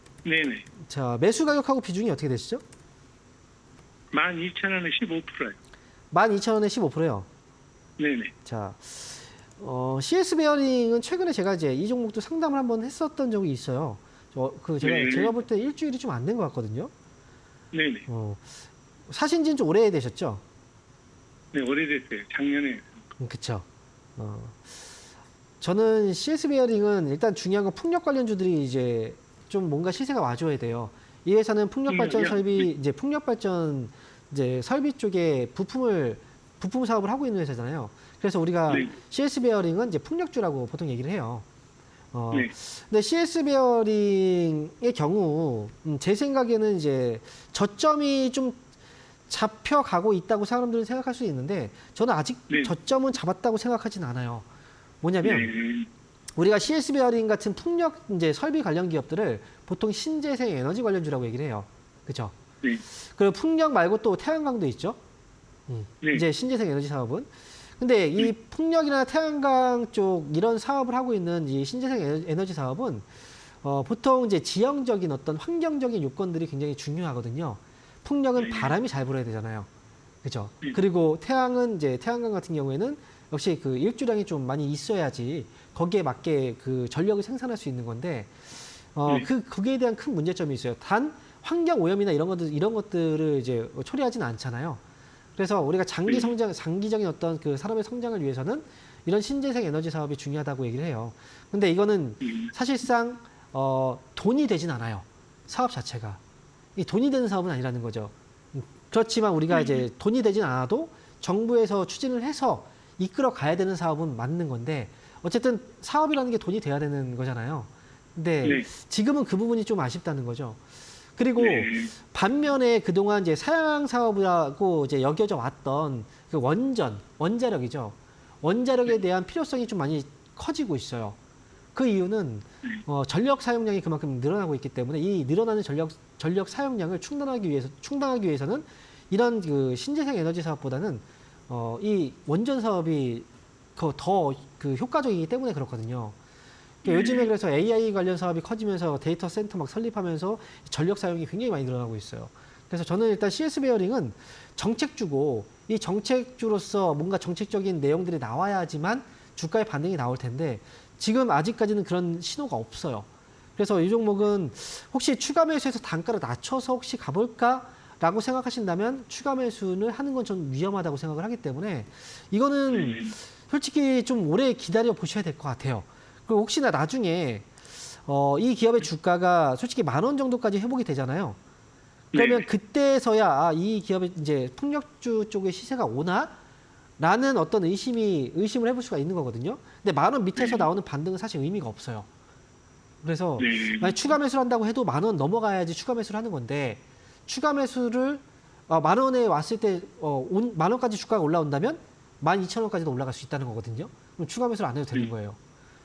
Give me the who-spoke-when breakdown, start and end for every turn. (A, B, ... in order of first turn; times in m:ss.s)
0:00.2-0:00.6 A
0:00.8-0:02.6 B
0:04.1-0:05.6 A
0:06.1-0:07.3 B
0:08.0-0:08.3 A
0:08.4-0:16.9 B
0:14.8-0:15.3 A
0:17.7-0:18.0 A
0:18.1-0:18.4 B
0:19.1-0:20.4 B
0:21.5-0:22.9 A
0:23.2-0:23.6 B
0:24.2-0:24.8 B
0:25.6-0:41.4 B
0:31.9-0:32.6 A
0:42.1-0:48.6 B
0:49.3-0:54.4 B
0:55.0-0:55.5 B
0:55.2-0:55.9 A
0:56.4-1:02.4 B
1:02.9-1:05.0 B
1:05.7-1:13.1 B
1:13.6-1:19.7 B
1:18.4-1:18.7 A
1:20.2-1:34.8 B
1:35.4-1:46.2 B
1:42.2-1:42.5 A
1:46.8-2:00.6 B
1:49.5-1:49.8 A
1:58.4-1:58.7 A
2:01.2-2:11.2 B
2:01.4-2:01.9 A
2:11.7-2:26.2 B
2:26.8-2:27.3 A
2:26.8-2:57.5 B
2:52.7-2:53.1 A
2:58.0-3:01.4 B
3:02.1-3:02.4 A
3:02.1-3:06.4 B
3:07.0-3:12.1 B
3:10.4-3:10.7 A
3:13.0-3:25.4 B
3:13.4-3:14.1 A